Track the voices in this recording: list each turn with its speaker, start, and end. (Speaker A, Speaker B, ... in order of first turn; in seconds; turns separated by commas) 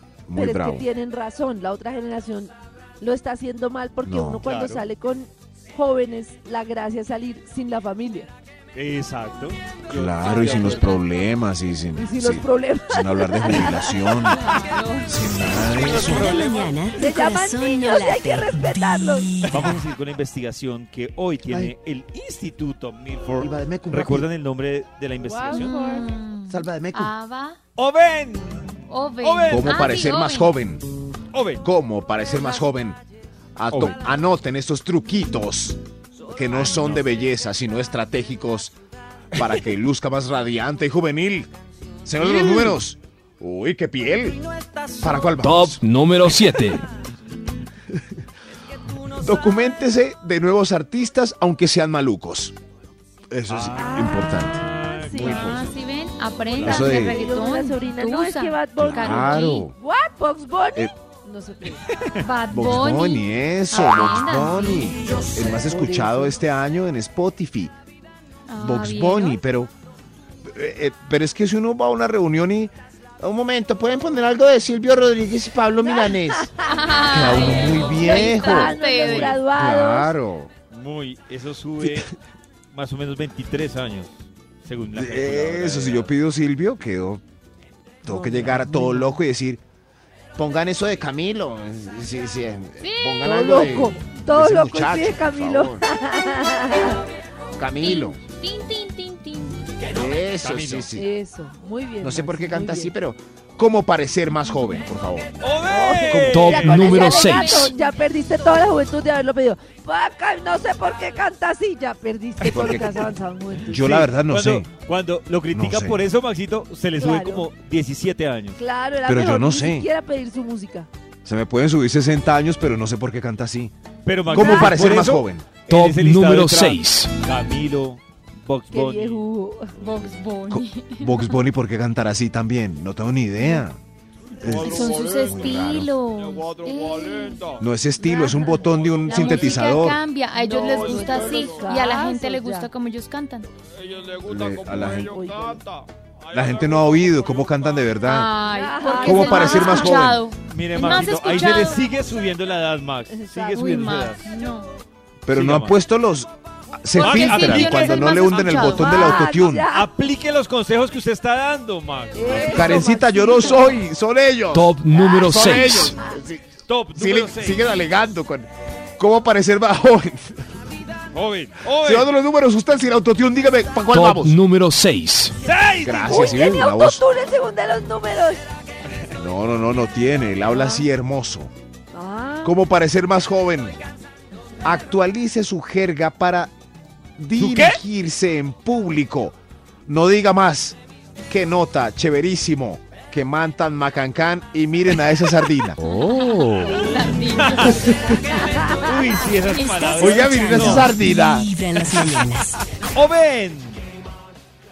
Speaker A: 0.3-0.8, Speaker B: 0.3-8.3, Speaker A: 4.0-4.4, Speaker C: 4.4-4.8, Speaker C: 8.7-11.1, Speaker A: 9.9-14.4, Speaker D: 10.3-11.0, Speaker B: 12.0-14.0, Speaker D: 14.2-15.2, Speaker A: 15.1-16.4, Speaker C: 15.7-16.7, Speaker E: 15.9-19.7, Speaker B: 17.0-19.3, Speaker C: 19.5-25.8, Speaker A: 21.4-21.7, Speaker A: 23.4-24.3, Speaker B: 25.2-26.1, Speaker D: 25.5-27.6, Speaker A: 26.5-27.1, Speaker C: 27.8-30.0, Speaker D: 28.9-30.5, Speaker A: 29.5-30.9, Speaker C: 31.3-31.6, Speaker A: 31.6-33.0, Speaker A: 33.6-35.8, Speaker C: 33.7-34.0, Speaker A: 36.3-38.7, Speaker C: 36.5-37.2, Speaker A: 39.3-41.5, Speaker A: 42.0-44.4, Speaker C: 42.2-42.6, Speaker A: 45.0-45.8, Speaker F: 45.4-46.8, Speaker A: 49.0-52.5, Speaker A: 53.3-55.6, Speaker C: 53.5-55.6, Speaker B: 53.8-55.4, Speaker D: 55.1-59.7, Speaker C: 56.6-57.0, Speaker A: 56.6-57.2, Speaker B: 56.9-61.8, Speaker A: 58.8-59.7, Speaker D: 62.2-65.0, Speaker A: 62.5-67.7, Speaker B: 65.0-66.4, Speaker D: 68.5-69.4, Speaker A: 68.6-69.7, Speaker A: 70.5-78.8, Speaker B: 76.0-76.5, Speaker D: 76.6-79.4, Speaker B: 77.7-80.1, Speaker C: 79.0-79.4, Speaker A: 79.5-80.5, Speaker C: 80.7-82.2, Speaker A: 81.8-82.1, Speaker C: 82.7-86.1, Speaker A: 84.9-87.2, Speaker A: 88.0-89.6, Speaker B: 88.1-89.2, Speaker C: 88.4-88.7, Speaker A: 90.4-95.8, Speaker D: 92.8-93.7, Speaker B: 93.2-97.0, Speaker A: 97.6-98.2, Speaker D: 97.8-99.8, Speaker A: 99.9-101.1, Speaker C: 100.4-100.9, Speaker B: 101.0-102.9, Speaker A: 102.0-105.4, Speaker C: 105.4-107.0, Speaker B: 105.7-113.8, Speaker A: 106.1-106.5, Speaker F: 106.3-107.7, Speaker D: 106.7-108.0, Speaker A: 112.4-113.1, Speaker C: 112.5-112.9, Speaker A: 113.7-114.7, Speaker C: 113.7-118.6, Speaker A: 115.5-116.0, Speaker B: 117.0-117.5, Speaker B: 118.6-120.9, Speaker A: 119.0-119.9, Speaker A: 121.2-123.7, Speaker C: 124.0-129.2, Speaker A: 124.3-125.5, Speaker D: 124.3-124.7, Speaker F: 125.7-127.1, Speaker B: 128.7-129.7, Speaker D: 129.8-131.4, Speaker A: 130.5-133.8, Speaker A: 134.4-135.9, Speaker D: 134.4-143.5, Speaker A: 137.6-140.0, Speaker C: 139.1-139.6, Speaker B: 140.4-142.7, Speaker C: 143.8-145.0, Speaker A: 144.2-145.3, Speaker B: 145.0-145.7, Speaker C: 145.5-147.5, Speaker A: 146.3-148.3, Speaker D: 148.0-151.9, Speaker B: 148.5-149.9, Speaker A: 149.0-150.2, Speaker C: 150.5-154.3, Speaker B: 153.1-153.9, Speaker D: 153.5-154.7, Speaker A: 155.2-159.7, Speaker C: 155.3-155.8, Speaker D: 157.0-159.3, Speaker C: 157.0-158.7, Speaker B: 158.7-159.9, Speaker C: 159.4-162.9, Speaker B: 162.1-163.8, Speaker A: 162.4-170.5, Speaker F: 164.5-166.0, Speaker C: 166.7-167.6, Speaker C: 171.1-172.1, Speaker A: 171.8-174.4, Speaker F: 173.9-175.4, Speaker C: 175.4-176.4, Speaker A: 175.8-177.0, Speaker B: 176.1-178.4, Speaker A: 179.2-181.5, Speaker B: 181.9-182.5, Speaker A: 182.4-183.8, Speaker A: 184.6-186.5, Speaker A: 187.2-195.8, Speaker C: 187.3-187.8, Speaker F: 195.8-196.8, Speaker D: 195.8-198.6, Speaker C: 197.2-201.0, Speaker A: 197.7-198.2, Speaker B: 198.3-199.0, Speaker D: 199.4-200.3, Speaker E: 199.8-202.5, Speaker A: 199.9-201.5, Speaker C: 202.9-203.8